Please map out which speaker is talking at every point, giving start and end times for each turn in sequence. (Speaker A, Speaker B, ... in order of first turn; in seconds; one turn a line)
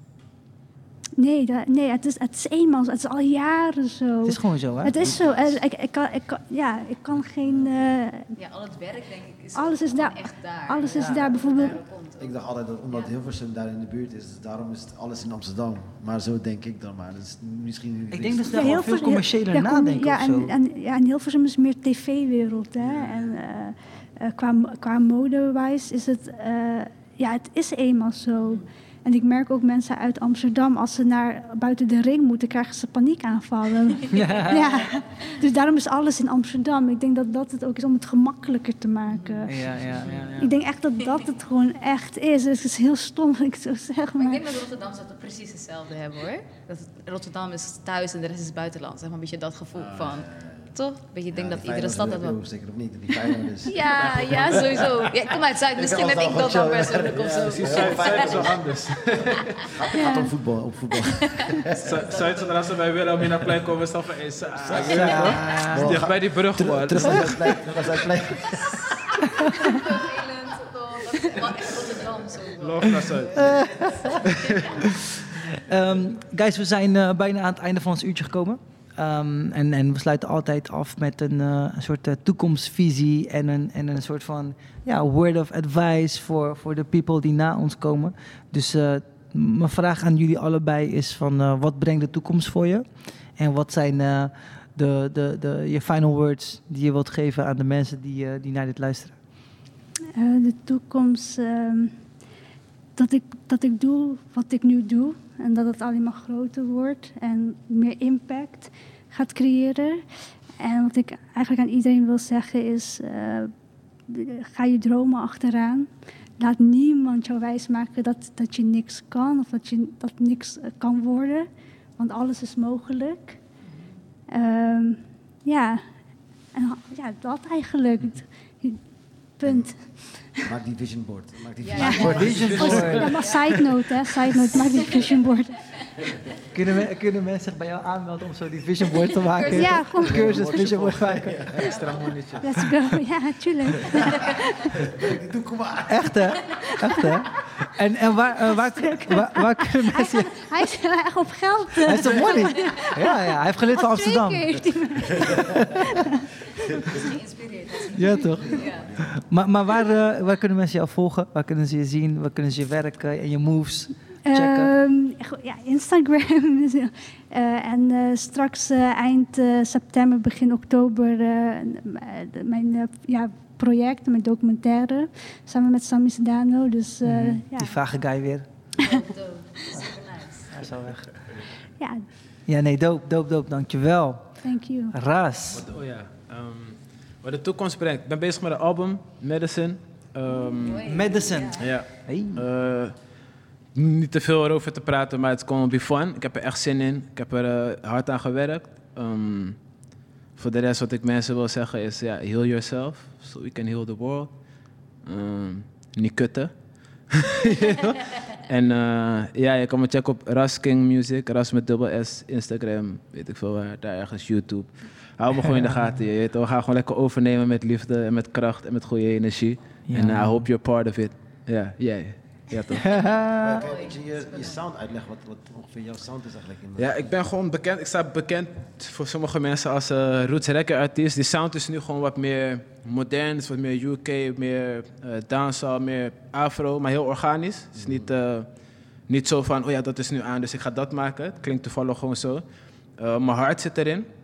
Speaker A: 1.2-8.3
Speaker B: 4.2-4.9
Speaker C: 4.8-5.6
Speaker C: 7.4-7.9
Speaker D: 8.3-13.1
Speaker A: 9.5-11.8
Speaker B: 10.9-11.3
Speaker C: 12.2-18.9
Speaker B: 18.1-20.5
Speaker A: 18.5-44.5
Speaker C: 22.8-23.4
Speaker D: 28.4-28.6
Speaker B: 34.1-34.9
Speaker D: 34.1-34.9
Speaker D: 39.1-40.5
Speaker B: 39.5-40.5
Speaker D: 44.2-52.4
Speaker C: 49.8-50.6
Speaker C: 51.3-62.1
Speaker D: 53.6-58.4
Speaker E: 57.2-59.7
Speaker A: 59.9-60.3
Speaker E: 61.8-68.0
Speaker C: 64.6-69.0
Speaker B: 64.8-66.0
Speaker B: 69.2-69.5
Speaker D: 69.6-74.8
Speaker E: 72.5-73.6
Speaker B: 73.3-74.2
Speaker E: 74.2-74.7
Speaker B: 74.8-92.8
Speaker B: 93.4-99.2
Speaker A: 100.2-101.9
Speaker A: 103.0-110.0
Speaker A: 110.6-113.5
Speaker A: 114.1-123.4
Speaker A: 124.3-125.8
Speaker A: 126.5-128.8
Speaker A: 129.4-130.4
Speaker C: 129.4-129.7
Speaker C: 130.4-133.0
Speaker D: 131.6-133.6
Speaker A: 131.8-135.8
Speaker B: 132.1-133.1
Speaker E: 132.3-133.0
Speaker D: 134.6-135.2
Speaker B: 136.5-141.4
Speaker D: 139.2-139.9
Speaker A: 139.5-140.5
Speaker C: 140.0-141.8
Speaker E: 140.2-142.6
Speaker A: 142.4-144.8
Speaker C: 144.8-146.2
Speaker B: 145.9-150.4
Speaker A: 148.5-153.2
Speaker B: 151.8-154.4
Speaker A: 153.7-156.3
Speaker C: 155.1-155.4
Speaker B: 155.4-155.8
Speaker C: 156.7-157.2
Speaker D: 156.7-158.9
Speaker B: 157.9-164.7
Speaker C: 158.1-159.1
Speaker A: 164.3-177.8
Speaker B: 177.0-178.5
Speaker D: 178.8-180.6
Speaker B: 180.5-181.3
Speaker A: 181.8-182.0
Speaker B: 182.5-185.7
Speaker A: 184.4-184.9
Speaker E: 185.5-190.9
Speaker D: 190.4-191.7
Speaker B: 190.8-192.4
Speaker E: 191.6-193.0
Speaker E: 193.7-199.6
Speaker E: 200.3-204.4
Speaker E: 205.0-206.5
Speaker E: 207.1-222.9
Speaker B: 215.4-216.0
Speaker B: 219.8-220.5
Speaker B: 222.8-223.6
Speaker C: 223.4-226.9
Speaker D: 223.4-224.6
Speaker E: 226.8-238.5
Speaker C: 237.8-238.0
Speaker E: 239.1-242.4
Speaker E: 243.0-244.1